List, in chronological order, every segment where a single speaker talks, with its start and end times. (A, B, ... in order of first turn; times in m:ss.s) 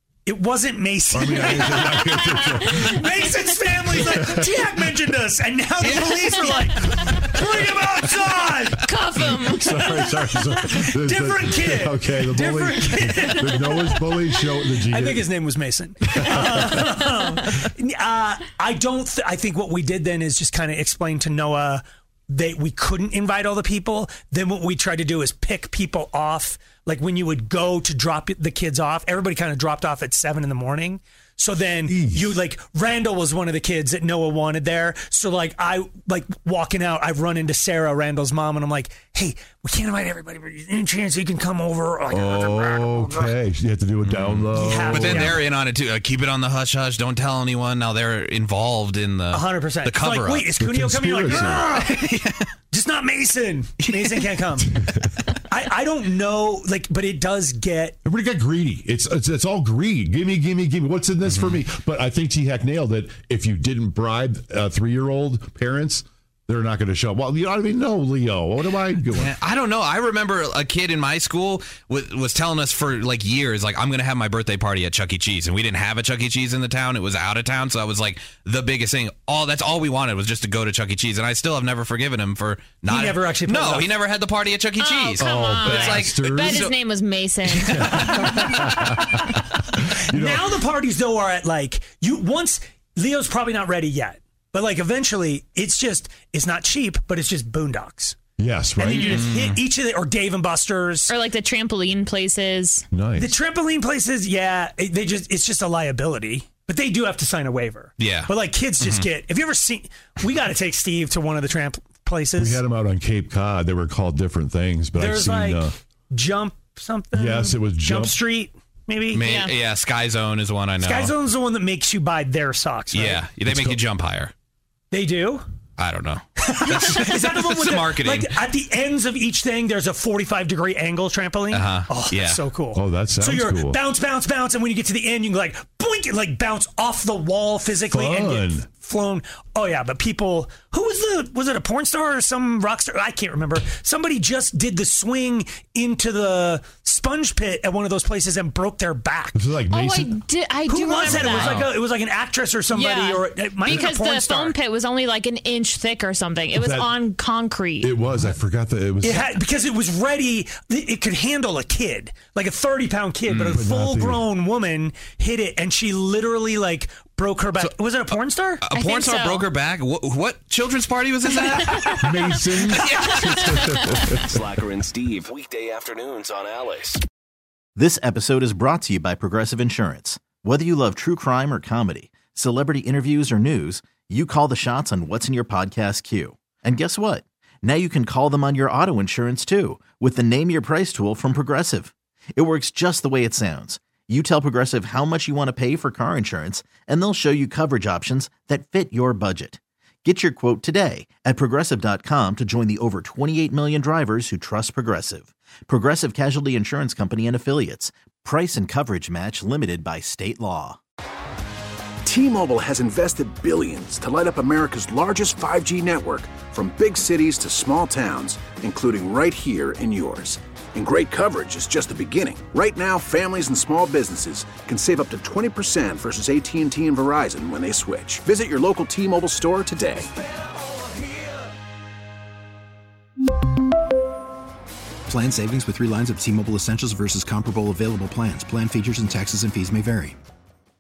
0:00.2-0:08.8 A
0:01.1-0:03.1 B
0:02.2-0:03.0 C
0:03.8-0:04.9 B
0:05.8-0:06.6 D
0:06.6-0:07.3 C
0:08.8-0:10.0 C
0:09.1-0:15.2 B
0:09.8-0:43.3 A
0:16.2-0:16.9 B
0:16.9-0:17.2 C
0:31.9-0:32.3 B
0:42.1-0:45.4 B
0:44.0-0:50.6 D
0:44.5-0:45.4 A
0:49.3-0:51.9 A
0:50.6-0:51.7 B
0:51.3-0:52.5 D
0:52.7-0:54.7 A
0:53.8-0:54.4 D
0:54.7-0:55.1 B
0:55.5-0:58.0 A
0:58.0-1:09.4 B
1:01.3-1:01.6 D
1:09.1-1:26.8 D
1:22.8-1:23.9 A
1:24.8-1:27.8 C
1:25.2-1:26.7 B
1:27.5-1:28.5 D
1:27.6-1:30.6 B
1:27.8-1:29.2 A
1:30.1-1:38.2 A
1:38.4-1:39.2 B
1:38.8-1:41.1 A
1:39.0-1:39.6 D
1:41.1-1:42.8 C
1:42.9-1:43.3 B
1:43.2-1:52.6 A
1:48.0-1:49.1 D
1:52.4-1:55.7 B
1:55.0-1:59.3 A
1:57.2-1:58.2 B
1:59.1-2:01.1 D
1:59.2-1:59.5 C
2:00.8-2:03.3 A
2:02.9-2:04.3 D
2:03.4-2:03.8 B
2:04.9-2:05.4 A
2:05.8-2:08.3 D
2:06.4-2:29.3 A
2:11.5-2:12.4 D
2:12.7-2:13.8 B
2:17.9-2:18.7 B
2:29.3-2:30.2 B
2:29.7-2:31.6 C
2:30.7-2:34.5 A
2:31.0-2:31.7 B
2:32.7-2:37.9 C
2:36.5-2:37.0 B
2:37.8-2:39.3 B
2:39.0-2:48.6 A
2:43.3-2:43.6 D
2:43.5-2:44.2 B
2:48.6-2:52.1 D
2:48.7-2:49.5 C
2:51.6-2:52.0 C
2:52.0-2:54.5 B
2:52.7-2:53.8 D
2:54.4-2:57.0 E
2:57.8-3:30.8 F
3:32.0-3:50.1 G
3:55.1-4:00.2 H